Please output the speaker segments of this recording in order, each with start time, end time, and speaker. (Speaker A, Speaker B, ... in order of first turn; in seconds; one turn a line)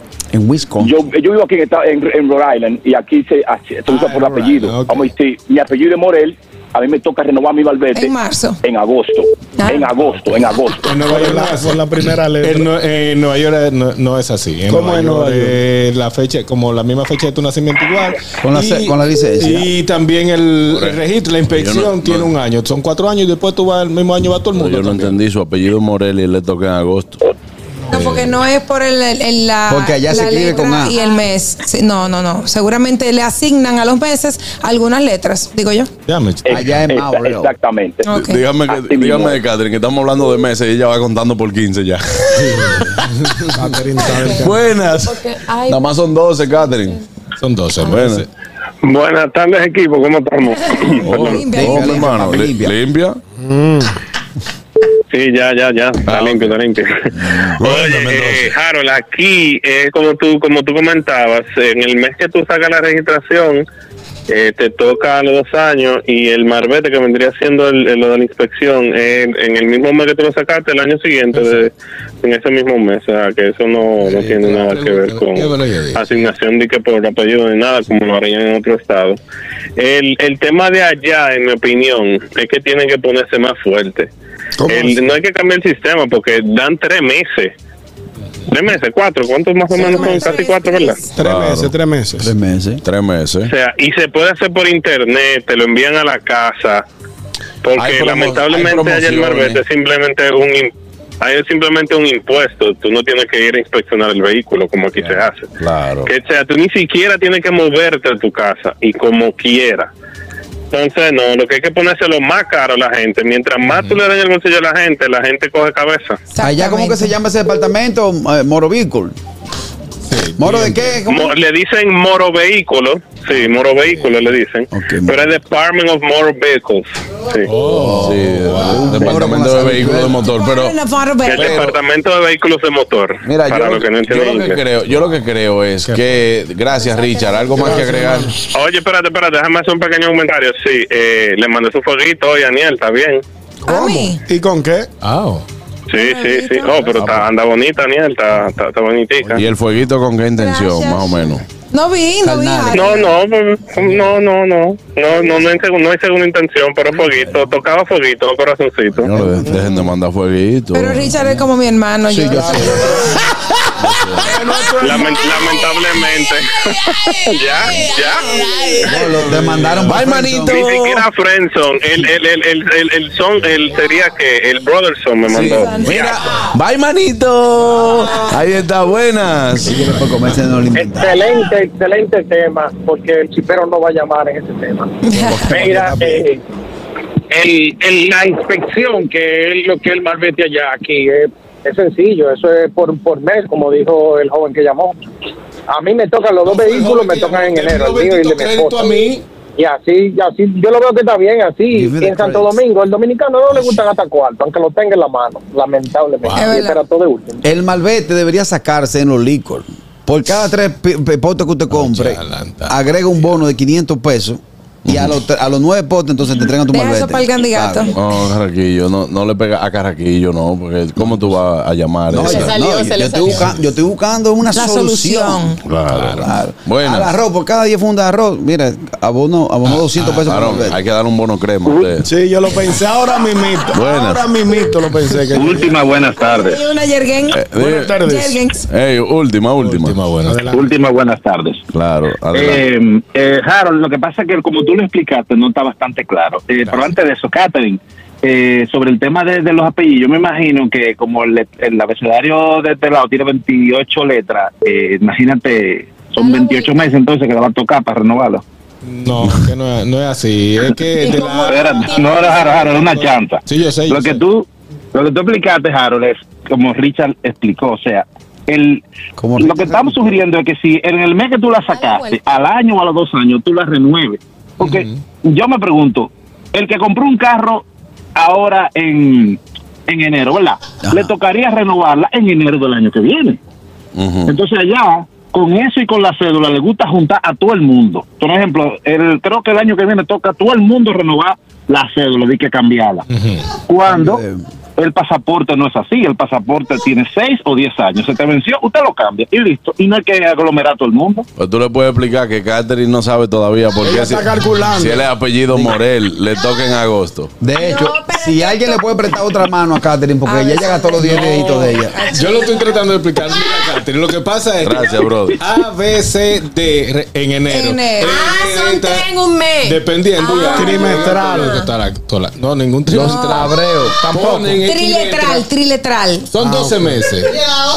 Speaker A: 0.3-1.0
Speaker B: 0.8-11.0
Speaker C: 3.9-5.1
Speaker D: 7.9-8.6
Speaker D: 9.6-9.9
Speaker C: 10.8-11.9
Speaker E: 11.1-12.7
Speaker C: 12.4-25.2
Speaker E: 14.7-15.6
Speaker A: 18.4-19.7
Speaker F: 20.7-22.3
Speaker F: 24.5-27.2
Speaker D: 27.9-35.9
Speaker A: 29.7-30.9
Speaker C: 36.1-36.7
Speaker B: 36.4-38.0
Speaker A: 36.5-37.5
Speaker D: 38.0-38.4
Speaker F: 38.1-42.9
Speaker B: 38.7-39.4
Speaker E: 43.5-44.5
Speaker G: 44.0-45.9
Speaker F: 44.1-47.0
Speaker G: 46.6-47.0
Speaker C: 47.4-48.3
Speaker F: 47.8-48.2
Speaker H: 48.8-51.4
Speaker D: 50.6-52.1
Speaker F: 51.0-53.2
Speaker A: 51.5-52.7
Speaker E: 53.4-53.9
Speaker H: 55.1-63.6
Speaker F: 56.0-56.6
Speaker F: 58.0-58.5
Speaker H: 64.3-79.2
Speaker C: 71.3-71.6
Speaker C: 74.0-76.2
Speaker H: 79.8-84.1
Speaker E: 84.6-85.0
Speaker H: 84.7-87.5
Speaker H: 88.5-91.0
Speaker D: 89.7-91.1
Speaker E: 89.7-90.3
Speaker E: 91.2-92.3
Speaker F: 91.2-91.7
Speaker A: 92.2-92.8
Speaker F: 92.8-93.5
Speaker H: 93.5-96.8
Speaker H: 97.6-105.5
Speaker F: 97.8-99.6
Speaker F: 105.0-106.1
Speaker H: 106.0-109.9
Speaker H: 110.7-116.2
Speaker C: 113.6-114.0
Speaker D: 116.3-117.1
Speaker A: 116.4-119.1
Speaker C: 120.1-121.0
Speaker A: 120.4-121.3
Speaker H: 121.1-127.5
Speaker C: 123.3-124.2
Speaker A: 124.7-125.3
Speaker C: 127.5-129.4
Speaker A: 127.7-130.2
Speaker F: 128.0-130.8
Speaker D: 130.2-131.6
Speaker H: 131.2-134.6
Speaker F: 131.3-131.7
Speaker F: 133.2-138.3
Speaker C: 135.8-136.2
Speaker D: 136.7-137.7
Speaker A: 137.6-138.3
Speaker E: 137.6-138.3
Speaker H: 138.5-143.2
Speaker D: 143.7-144.2
Speaker E: 143.7-144.9
Speaker C: 145.0-145.4
Speaker H: 145.9-149.4
Speaker D: 145.9-146.9
Speaker F: 149.4-151.4
Speaker D: 150.4-153.1
Speaker A: 152.2-153.0
Speaker H: 152.7-159.1
Speaker F: 158.9-161.3
Speaker A: 159.1-159.8
Speaker D: 160.7-163.0
Speaker A: 162.1-163.1
Speaker E: 162.3-163.2
Speaker F: 163.8-164.3
Speaker E: 164.2-165.6
Speaker H: 164.8-168.9
Speaker A: 168.8-170.6
Speaker F: 169.6-171.1
Speaker H: 170.5-176.1
Speaker F: 175.3-179.8
Speaker D: 175.6-176.0
Speaker A: 179.6-181.2
Speaker I: 180.7-186.4
Speaker A: 185.1-186.2
Speaker D: 185.1-185.4
Speaker E: 185.5-186.0
Speaker I: 187.3-195.0
Speaker I: 195.7-198.9
Speaker C: 196.4-199.2
Speaker I: 199.6-207.4
Speaker A: 201.7-202.6
Speaker D: 206.3-206.8
Speaker A: 207.4-218.0
Speaker C: 211.7-212.7
Speaker F: 214.9-215.1
Speaker D: 216.7-217.9
Speaker F: 217.9-222.5
Speaker A: 222.1-225.6
Speaker G: 222.2-223.5
Speaker D: 224.5-225.6
Speaker F: 225.6-227.1
Speaker C: 225.9-226.2
Speaker A: 226.1-230.8
Speaker F: 230.0-232.1
Speaker E: 232.0-235.7
Speaker F: 233.7-234.3
Speaker J: 235.3-236.6
Speaker D: 236.1-237.5
Speaker F: 237.3-238.0
Speaker E: 237.5-238.4
Speaker D: 238.0-238.6
Speaker F: 238.7-240.0
Speaker C: 239.6-240.4
Speaker E: 240.2-240.7
Speaker J: 240.5-241.6
Speaker F: 241.7-242.6
Speaker J: 242.3-258.4
Speaker G: 256.2-256.9
Speaker C: 258.8-264.2
Speaker G: 260.9-262.9
Speaker J: 261.2-268.8
Speaker A: 269.2-270.2
Speaker J: 269.4-277.6
Speaker G: 271.7-272.2
Speaker C: 274.6-275.0
Speaker J: 278.1-283.4
Speaker F: 283.9-284.3
Speaker J: 284.3-293.1
Speaker C: 293.1-293.4
Speaker J: 293.7-294.2
Speaker A: 293.8-294.4
Speaker J: 294.8-301.2
Speaker F: 301.4-307.3
Speaker E: 303.8-305.1
Speaker A: 307.4-312.0
Speaker D: 307.5-309.1
Speaker D: 310.2-312.7
Speaker C: 311.0-319.1
Speaker F: 314.6-315.4
Speaker D: 317.5-318.2
Speaker G: 318.0-320.8
Speaker C: 319.6-325.4
Speaker D: 320.2-320.9
Speaker E: 320.5-321.6
Speaker A: 322.9-324.2
Speaker D: 323.0-323.5
Speaker E: 324.0-324.6
Speaker D: 324.6-326.3
Speaker C: 326.3-327.4
Speaker E: 326.4-327.0